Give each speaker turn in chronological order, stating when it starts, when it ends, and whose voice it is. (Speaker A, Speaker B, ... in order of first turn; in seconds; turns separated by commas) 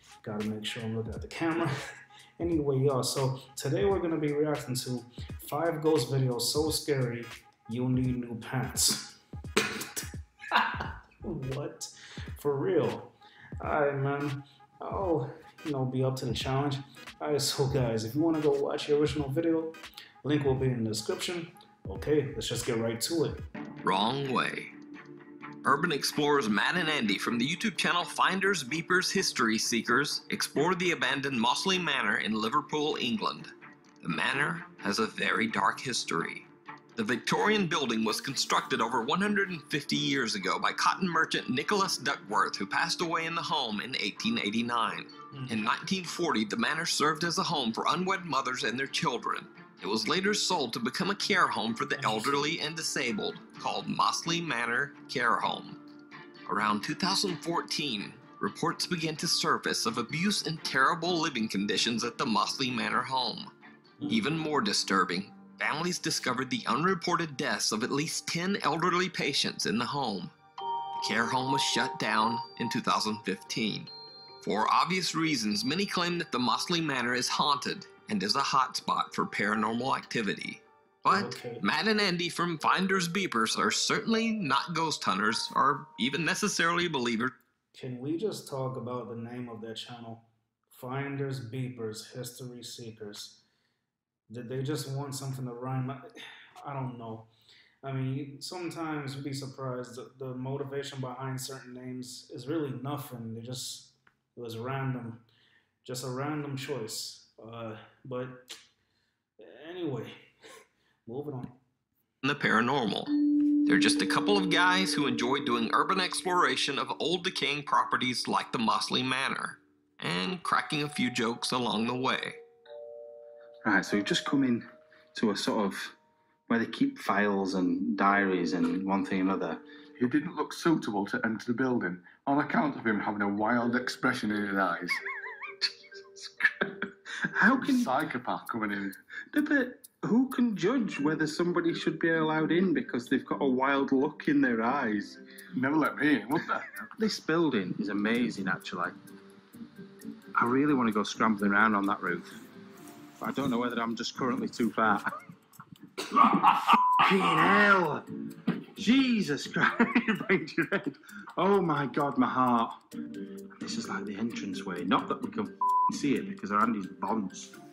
Speaker A: 0.2-1.7, Speaker A: 2.4-9.2, Speaker A: 11.2-23.4, Speaker B: 23.8-24.7, Speaker B: 25.6-55.8, Speaker A: 45.3-45.6, Speaker A: 52.0-52.5, Speaker B: 56.5-63.5, Speaker B: 64.1-70.3, Speaker B: 70.9-73.9, Speaker B: 74.4-87.3, Speaker A: 81.1-81.7, Speaker A: 87.7-93.4, Speaker A: 94.3-96.1, Speaker A: 96.6-97.3, Speaker A: 97.8-105.2, Speaker A: 105.8-108.5, Speaker A: 109.4-110.2, Speaker A: 111.0-111.6, Speaker B: 112.2-122.4, Speaker C: 123.6-126.0, Speaker C: 126.5-129.6, Speaker D: 130.0-135.0, Speaker D: 135.6-136.9, Speaker C: 137.3-137.9, Speaker D: 137.5-138.9, Speaker C: 139.3-145.2, Speaker D: 145.5-146.8, Speaker C: 147.0-148.9, Speaker C: 150.3-152.4, Speaker C: 153.2-155.1, Speaker C: 156.1-158.1, Speaker C: 158.7-162.8, Speaker C: 163.6-167.5